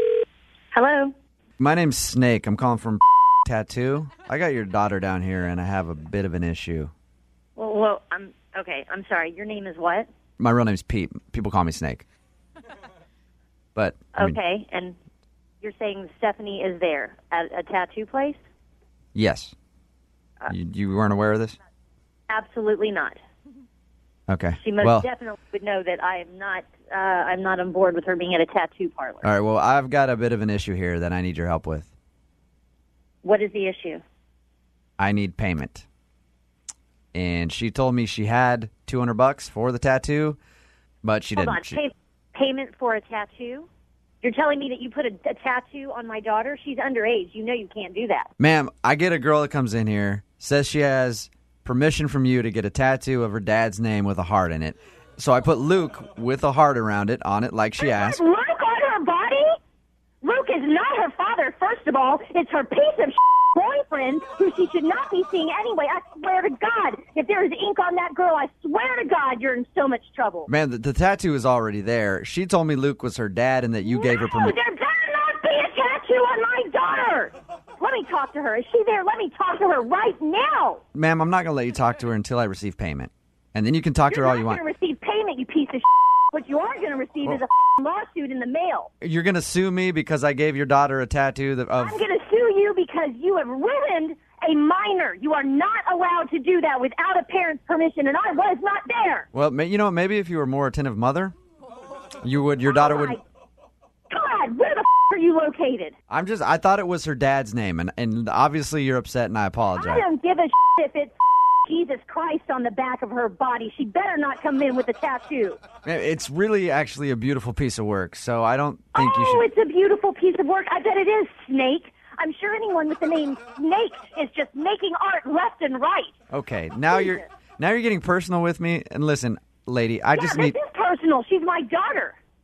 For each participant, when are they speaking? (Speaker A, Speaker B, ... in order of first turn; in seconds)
Speaker A: 0.7-1.1, 7.5-10.1, 14.2-15.0, 15.6-18.4, 22.3-23.2, 24.6-29.3, 33.2-34.0, 41.4-43.7, 44.2-48.3, 57.8-59.6, 60.2-70.5, 73.9-80.8, 84.1-88.9, 91.8-99.3, 102.6-103.2, 104.1-105.9, 109.8-115.6, 119.0-126.1, 126.9-127.3, 130.1-132.2
Speaker B: 1.6-6.9, 10.4-12.0, 13.8-14.4, 19.1-19.5, 20.5-21.6, 24.3-25.1, 29.2-31.9, 35.0-35.9, 37.1-40.4, 41.0-41.8, 48.4-58.2, 70.5-74.6, 80.9-84.6, 89.0-92.0, 99.3-101.3, 102.2-103.2, 106.1-110.0, 115.8-119.5, 126.3-130.5